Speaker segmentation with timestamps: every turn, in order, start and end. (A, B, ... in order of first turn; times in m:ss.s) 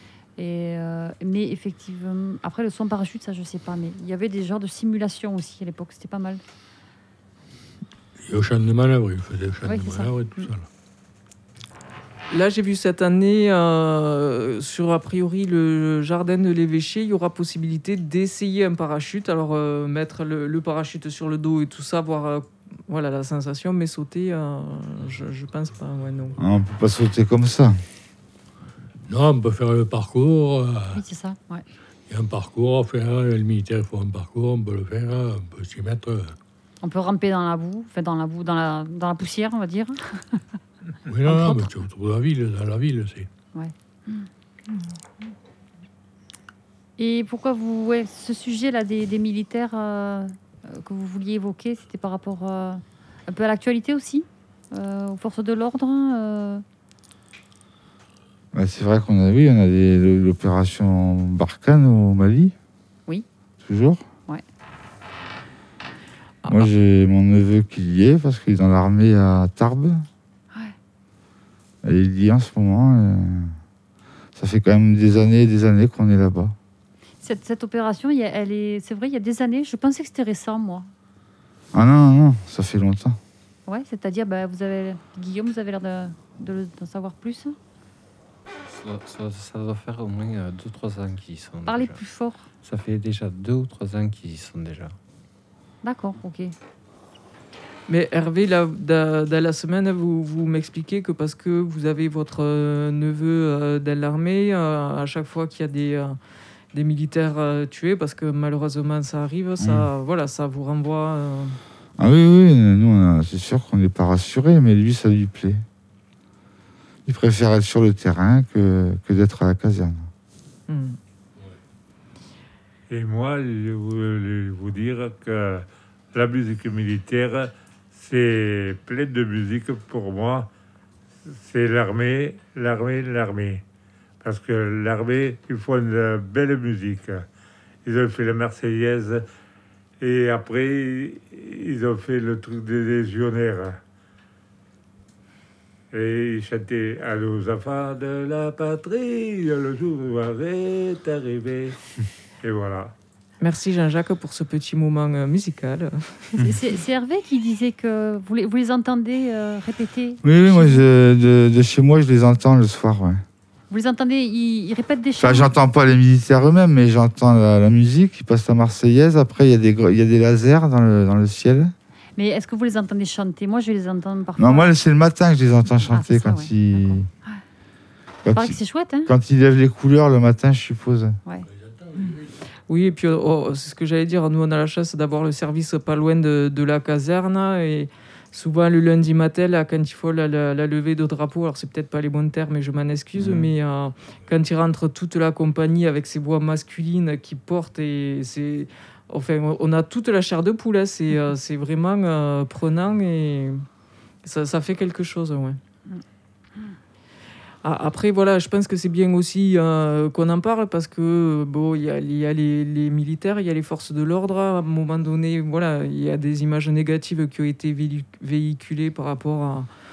0:00.4-0:06.4 A
0:08.2-0:10.6 B
0:09.6-0:10.5 A
0:12.3-0:26.4 C
0:26.4-0:27.8 D
0:29.1-0:31.0 B
0:30.9-0:31.6 A
0:32.1-0:36.3 B
0:36.8-0:40.4 A
0:41.1-0:43.3 B
0:41.2-0:41.7 A
0:43.5-0:44.3 A
0:47.0-0:56.6 A
0:58.5-1:02.5 D
1:03.6-1:04.0 D
1:06.4-1:06.7 C
1:06.5-1:10.1 D
1:11.8-1:13.6 D
1:14.4-1:16.6 D
1:17.2-1:20.9 A
1:21.7-1:23.2 D
1:23.6-1:27.6 A
1:28.6-1:32.0 E
1:31.6-1:32.4 A
1:32.6-1:35.0 E
1:35.8-1:36.6 A
1:37.9-1:46.2 C
1:46.7-1:51.6 C
1:49.6-1:49.9 D
1:52.0-1:55.6 D
1:57.1-2:00.1 D
2:00.7-2:01.0 C
2:02.9-2:10.5 F
2:11.3-2:13.6 F
2:14.2-2:17.3 F
2:17.8-2:19.2 F
2:20.0-2:23.8 F
2:25.9-2:31.8 F
2:32.4-2:32.9 F
2:33.4-2:36.4 C
2:36.4-2:40.9 A
2:40.2-2:43.2 D
2:43.7-2:45.5 A
2:45.2-2:51.7 D
2:52.2-2:54.7 A
2:54.4-2:57.1 D
2:55.8-2:57.4 A
2:58.2-3:01.2 D
2:58.3-2:59.1 A
3:01.5-3:02.4 B
3:02.7-3:23.6 C
3:24.2-3:25.6 C
3:27.6-3:39.7 C